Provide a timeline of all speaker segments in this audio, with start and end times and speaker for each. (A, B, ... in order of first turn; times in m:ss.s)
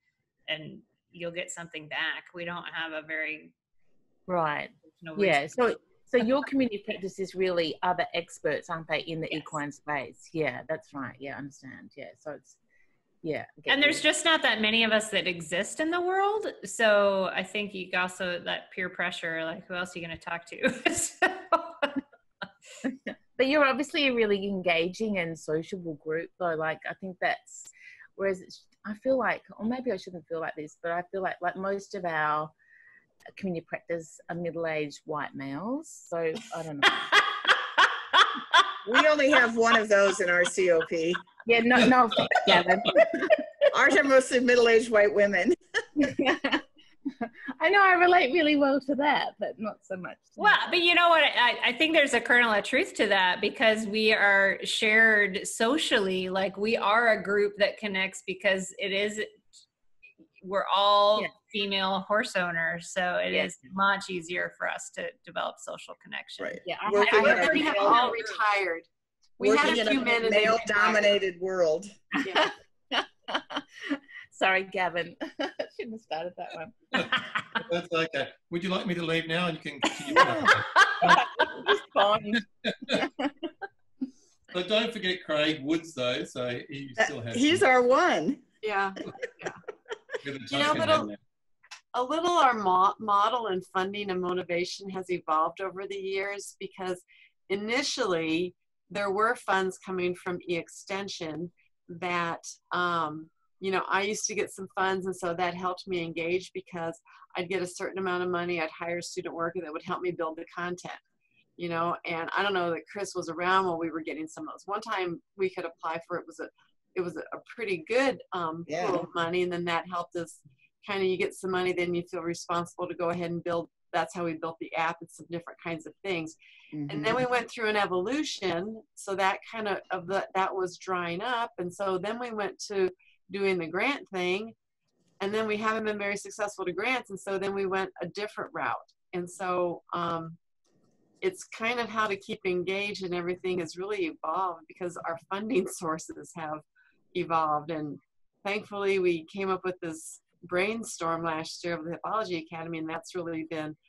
0:00.5-0:03.5 A
0:04.3-0:12.6 B
0:05.0-0:05.5 A
0:09.3-0:09.6 A
0:13.2-0:14.0 B
0:13.7-0:22.0 A
0:23.4-0:32.5 B
0:33.4-0:37.2 B
0:38.8-0:41.3 C
0:41.4-0:43.6 B
0:43.7-0:45.6 C
0:46.0-0:46.6 B
0:47.6-0:50.6 B
0:50.4-0:59.4 A
1:00.4-1:08.3 A
1:03.3-1:03.6 B
1:06.4-1:07.8 C
1:06.6-1:08.2 B
1:07.0-1:08.9 D
1:09.4-1:11.1 D
1:09.4-1:12.0 C
1:12.2-1:17.6 B
1:16.9-1:21.2 E
1:20.0-1:23.3 B
1:20.2-1:20.4 C
1:22.6-1:23.0 E
1:24.5-1:27.6 E
1:27.0-1:28.4 C
1:28.6-1:29.6 D
1:30.2-1:31.2 E
1:30.5-1:31.1 D
1:31.9-1:51.0 D
1:51.6-2:06.4 D
1:58.7-1:59.1 C
2:06.7-2:07.2 C
2:06.9-2:14.5 D
2:15.2-2:20.4 D
2:21.2-2:33.8 D